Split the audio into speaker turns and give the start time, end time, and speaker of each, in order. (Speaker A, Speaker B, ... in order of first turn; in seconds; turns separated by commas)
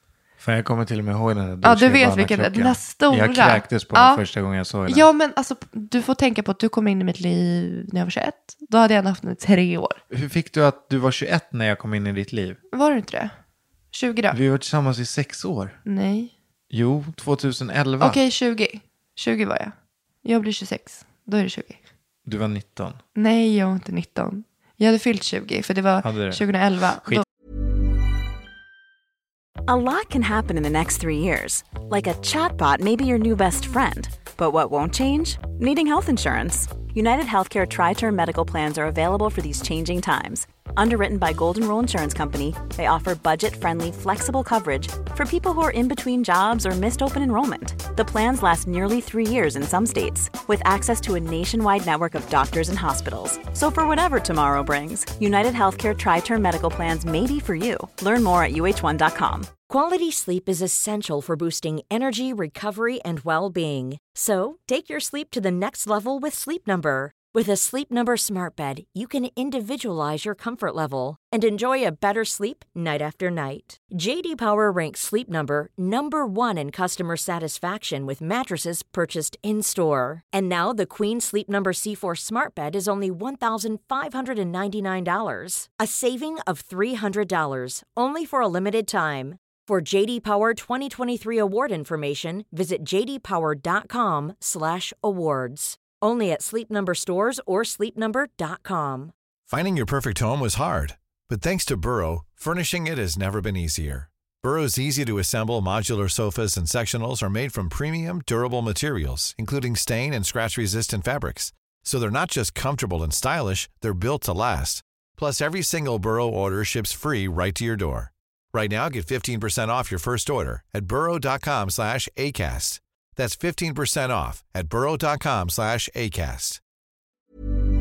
Speaker A: 0.4-5.1, Speaker B: 1.6-4.2, Speaker B: 4.9-10.0, Speaker A: 10.1-12.6, Speaker B: 12.7-13.3, Speaker B: 13.9-14.4, Speaker A: 14.3-15.8, Speaker B: 15.8-16.3, Speaker A: 16.7-18.2, Speaker B: 18.0-19.7, Speaker B: 20.2-21.8, Speaker A: 22.2-23.0, Speaker B: 23.1-27.2, Speaker A: 26.0-26.4, Speaker C: 29.7-59.5, Speaker D: 59.7-99.1, Speaker E: 99.5-126.6